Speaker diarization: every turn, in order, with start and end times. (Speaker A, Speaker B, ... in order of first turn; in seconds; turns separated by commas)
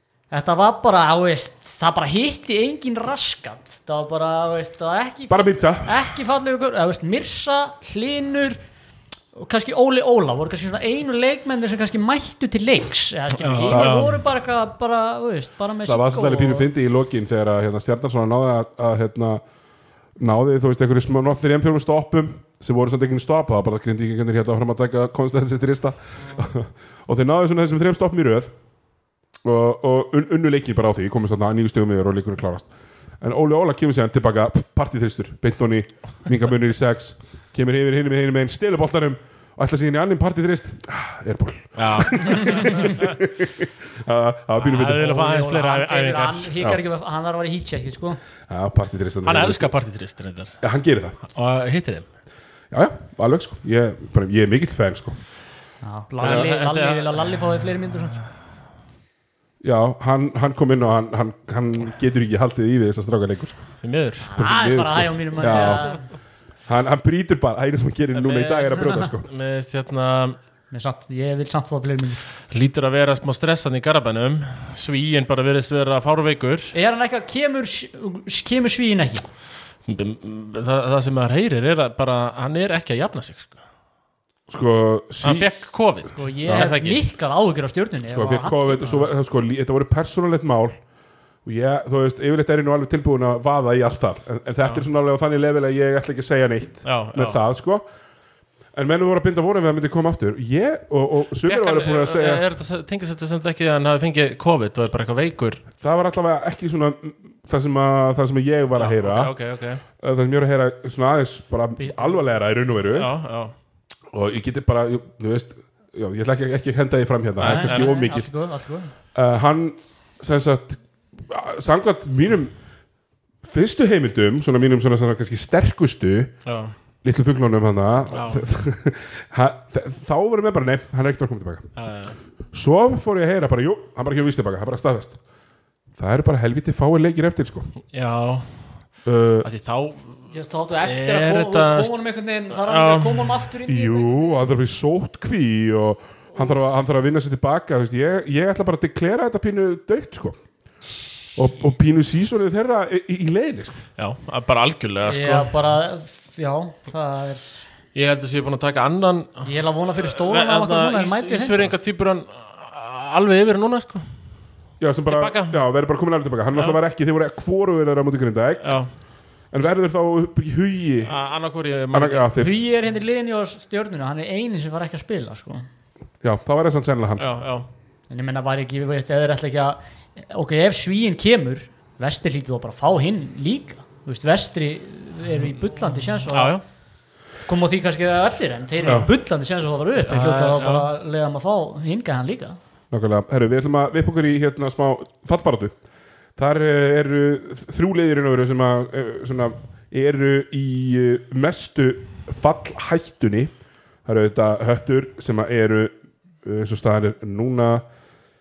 Speaker A: 0.3-8.6, Speaker B: 5.3-6.0, Speaker A: 9.3-16.7, Speaker C: 13.4-14.2, Speaker B: 13.7-14.1, Speaker B: 15.9-19.4, Speaker B: 20.2-28.5, Speaker B: 29.4-32.7, Speaker B: 33.2-45.2, Speaker C: 41.8-43.0, Speaker A: 42.2-43.0, Speaker C: 44.6-46.5, Speaker A: 44.9-48.2, Speaker B: 48.5-49.7, Speaker C: 49.3-50.6, Speaker B: 50.6-51.2, Speaker C: 51.3-52.1, Speaker B: 52.7-55.2, Speaker A: 55.8-58.2, Speaker C: 56.2-57.4, Speaker B: 59.6-63.7, Speaker C: 63.8-64.3, Speaker A: 64.2-66.0, Speaker B: 64.3-65.8, Speaker C: 65.5-65.8, Speaker B: 66.7-69.3, Speaker C: 68.1-70.4, Speaker A: 70.7-72.2, Speaker C: 72.5-76.8, Speaker A: 76.7-79.3, Speaker C: 79.9-83.6, Speaker B: 84.5-85.5, Speaker C: 85.2-87.0, Speaker A: 86.2-89.1, Speaker B: 88.1-90.8, Speaker B: 91.5-97.8, Speaker C: 96.8-97.4, Speaker B: 98.7-102.4, Speaker C: 101.4-105.7, Speaker B: 105.8-109.3, Speaker C: 108.7-109.8, Speaker B: 110.0-113.1, Speaker A: 111.8-112.2, Speaker C: 112.9-113.5, Speaker B: 114.1-118.3, Speaker C: 117.4-118.0, Speaker A: 117.4-118.9, Speaker B: 119.2-122.5, Speaker B: 123.4-126.3, Speaker C: 126.5-126.7, Speaker B: 127.0-131.7, Speaker C: 128.1-128.4, Speaker C: 131.8-132.2, Speaker B: 132.5-135.2, Speaker B: 136.0-137.7, Speaker C: 137.9-138.5, Speaker B: 139.1-139.5, Speaker C: 139.4-140.3, Speaker A: 140.3-144.5, Speaker C: 140.8-141.9, Speaker C: 142.5-143.4, Speaker B: 143.7-150.4, Speaker B: 151.4-153.8, Speaker C: 154.0-155.6, Speaker A: 155.1-157.7, Speaker C: 157.9-164.0, Speaker A: 159.4-161.7, Speaker B: 164.8-168.7, Speaker C: 165.1-165.6, Speaker C: 166.5-166.8, Speaker C: 168.6-168.9, Speaker B: 169.5-171.1, Speaker C: 171.1-172.3, Speaker B: 171.9-172.6, Speaker A: 172.4-175.7, Speaker B: 176.2-177.2, Speaker C: 177.2-177.7, Speaker A: 178.1-186.6, Speaker C: 186.1-186.6, Speaker A: 187.5-192.6, Speaker C: 190.0-190.9, Speaker B: 192.9-195.7, Speaker B: 196.4-203.5, Speaker B: 204.1-207.8